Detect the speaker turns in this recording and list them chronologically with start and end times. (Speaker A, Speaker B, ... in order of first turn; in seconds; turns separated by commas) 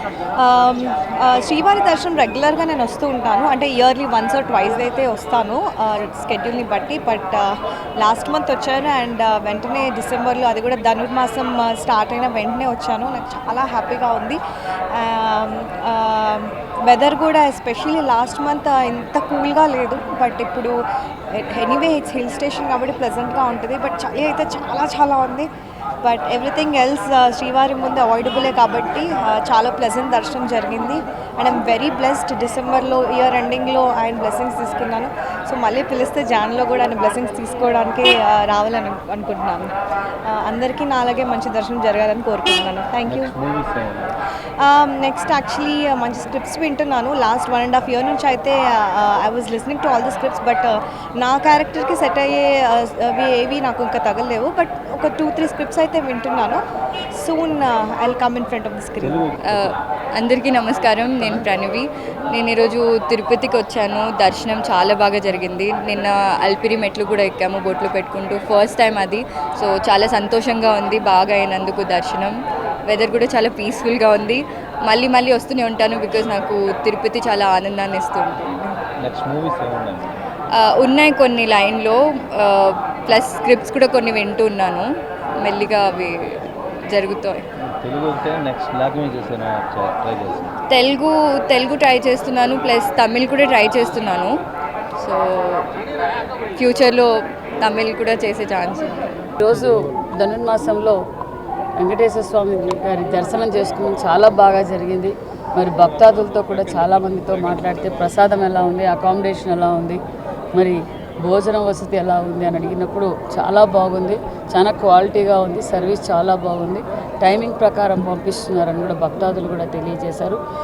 Speaker A: 0.4-14.4, Speaker A: 14.9-20.7, Speaker A: 21.3-25.5, Speaker A: 26.0-39.7, Speaker A: 40.3-43.3, Speaker B: 43.1-44.1, Speaker A: 44.6-56.6, Speaker A: 57.1-59.2, Speaker B: 59.0-59.8, Speaker C: 59.4-72.3, Speaker C: 72.9-78.8, Speaker B: 79.0-80.1, Speaker C: 80.5-84.9, Speaker C: 85.4-86.3, Speaker C: 86.9-87.4, Speaker B: 87.6-90.5, Speaker C: 90.7-94.3, Speaker C: 95.0-95.7, Speaker C: 96.5-97.1, Speaker C: 97.6-99.1, Speaker D: 99.4-100.9, Speaker D: 101.8-110.0, Speaker B: 106.3-108.2, Speaker D: 111.3-120.4